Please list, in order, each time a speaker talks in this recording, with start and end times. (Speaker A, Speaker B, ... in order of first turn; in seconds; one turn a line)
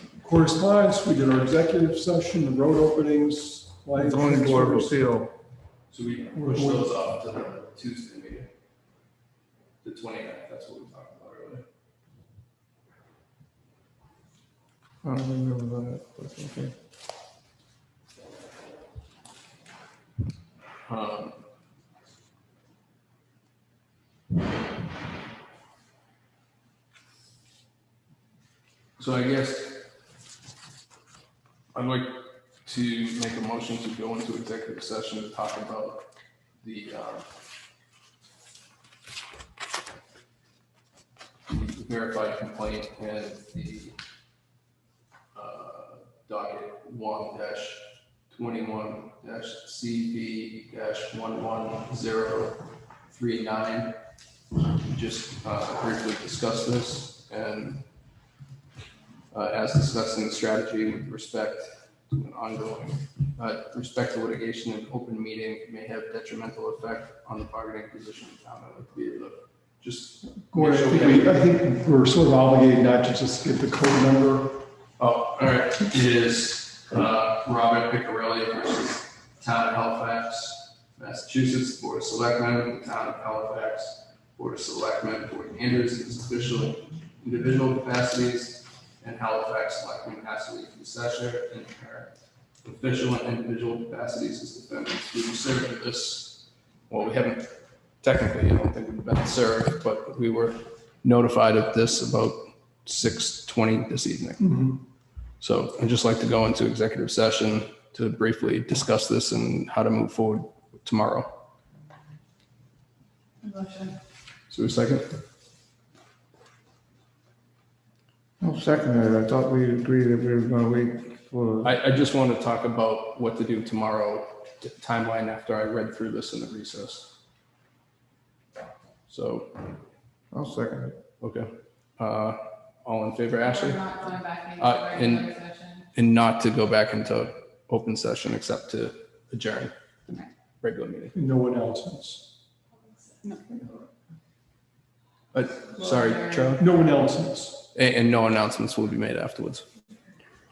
Speaker A: 0.2-5.0
Speaker B: 4.0-5.3
Speaker C: 5.9-8.5
Speaker A: 6.3-6.9
Speaker C: 9.8-11.6
Speaker B: 15.0-16.7
Speaker C: 20.9-21.4
Speaker C: 29.0-29.8
Speaker C: 31.7-36.0
Speaker C: 36.6-37.3
Speaker C: 41.5-44.0
Speaker C: 45.3-53.9
Speaker C: 54.8-57.8
Speaker C: 59.3-71.4
Speaker A: 70.5-74.6
Speaker C: 75.0-92.1
Speaker C: 92.6-97.5
Speaker C: 98.0-104.5
Speaker A: 104.4-104.8
Speaker C: 105.4-111.3
Speaker D: 113.4-114.0
Speaker C: 114.5-115.2
Speaker B: 118.4-121.7
Speaker C: 121.6-127.1
Speaker C: 129.1-129.5
Speaker B: 130.3-130.9
Speaker C: 131.2-134.0
Speaker D: 133.4-135.9
Speaker C: 134.6-135.3
Speaker C: 135.9-139.7
Speaker C: 140.6-141.2
Speaker A: 141.1-142.3
Speaker D: 143.2-143.7
Speaker C: 145.3-146.7
Speaker D: 145.8-146.4
Speaker A: 146.6-147.6
Speaker C: 147.7-149.6